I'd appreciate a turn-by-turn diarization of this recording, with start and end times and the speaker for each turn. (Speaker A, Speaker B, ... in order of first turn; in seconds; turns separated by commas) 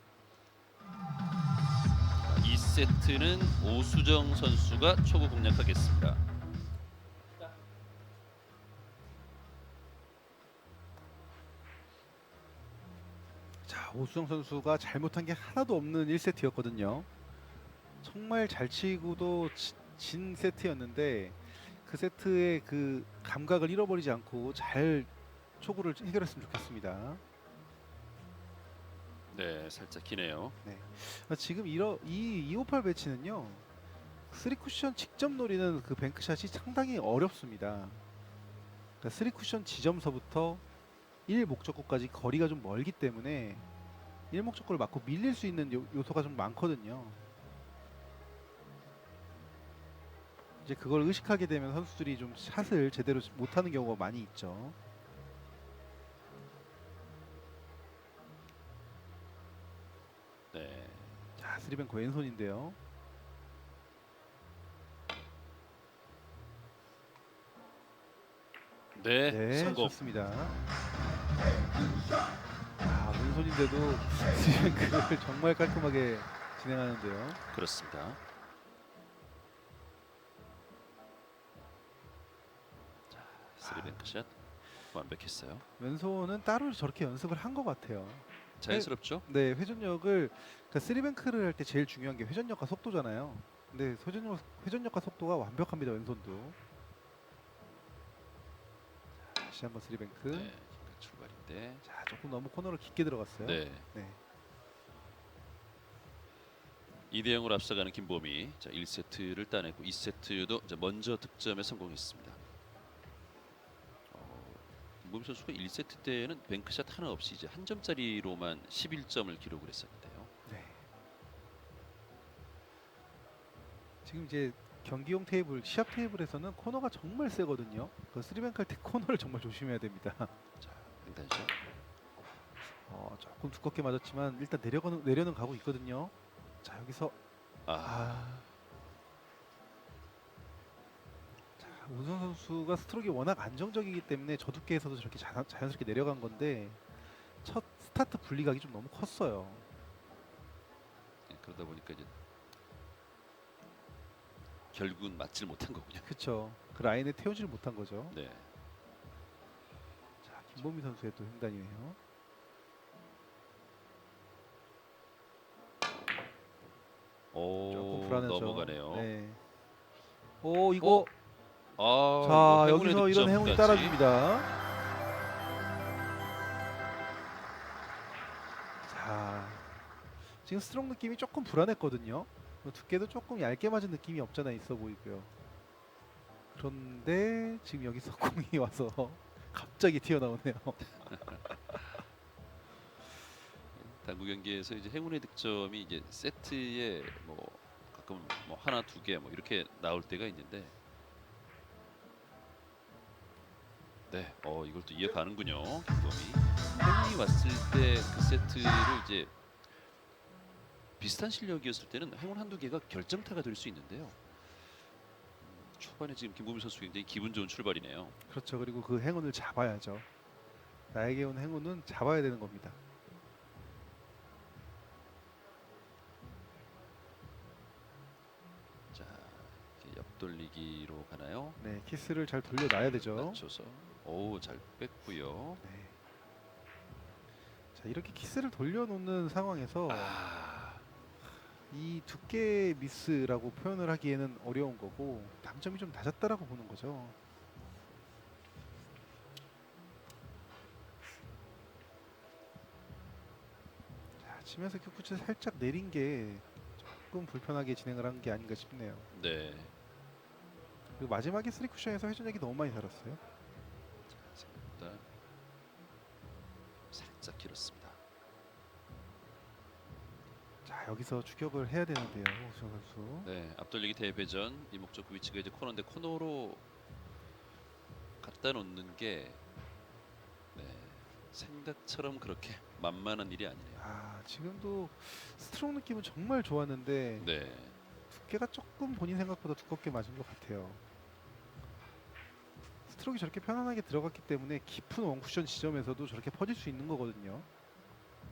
Speaker A: 2.3-6.2, Speaker B: 13.7-17.1, Speaker B: 18.0-27.2, Speaker A: 29.3-30.6, Speaker B: 30.6-33.7, Speaker B: 34.3-38.0, Speaker B: 39.0-40.6, Speaker B: 41.3-43.7, Speaker B: 44.3-47.2, Speaker B: 50.6-54.8, Speaker A: 60.5-61.3, Speaker B: 61.4-62.8, Speaker A: 69.0-70.1, Speaker B: 69.3-70.6, Speaker B: 72.8-77.4, Speaker A: 77.5-78.2, Speaker A: 83.1-84.3, Speaker B: 83.6-84.0, Speaker A: 84.9-85.6, Speaker B: 85.8-96.6, Speaker A: 88.6-89.2, Speaker B: 99.2-100.5, Speaker A: 100.3-101.8, Speaker B: 101.8-104.2, Speaker A: 103.4-103.9, Speaker A: 107.1-112.4, Speaker A: 114.1-120.3, Speaker B: 120.5-120.9, Speaker B: 124.0-130.3, Speaker A: 130.6-131.5, Speaker B: 132.8-137.2, Speaker A: 137.7-138.5, Speaker B: 137.8-138.5, Speaker B: 141.6-146.8, Speaker B: 147.4-149.7, Speaker A: 151.3-152.1, Speaker A: 154.7-156.1, Speaker B: 156.0-158.2, Speaker A: 158.1-158.5, Speaker B: 160.2-162.0, Speaker A: 167.3-169.1, Speaker B: 167.7-169.4, Speaker B: 170.4-171.1, Speaker A: 170.8-171.1, Speaker A: 171.8-174.0, Speaker B: 172.2-174.5, Speaker B: 178.9-179.7, Speaker B: 180.4-185.3, Speaker B: 186.5-191.2, Speaker A: 191.1-191.4, Speaker A: 193.8-200.8, Speaker A: 204.1-209.3, Speaker A: 211.0-214.2, Speaker A: 215.4-218.2, Speaker B: 218.3-220.1, Speaker B: 220.9-222.8, Speaker A: 228.9-231.6, Speaker B: 231.6-233.4, Speaker A: 232.7-235.6, Speaker B: 235.6-236.0, Speaker B: 237.8-240.2, Speaker A: 239.9-240.8, Speaker B: 241.7-247.2, Speaker B: 254.2-259.1, Speaker A: 259.1-259.7, Speaker B: 261.0-263.2, Speaker A: 264.1-265.1, Speaker A: 266.9-268.0, Speaker B: 270.6-273.3, Speaker A: 273.2-276.6, Speaker A: 278.2-279.4, Speaker A: 280.5-283.8, Speaker B: 283.8-287.3, Speaker A: 287.2-287.8, Speaker B: 288.1-290.8, Speaker B: 292.9-297.5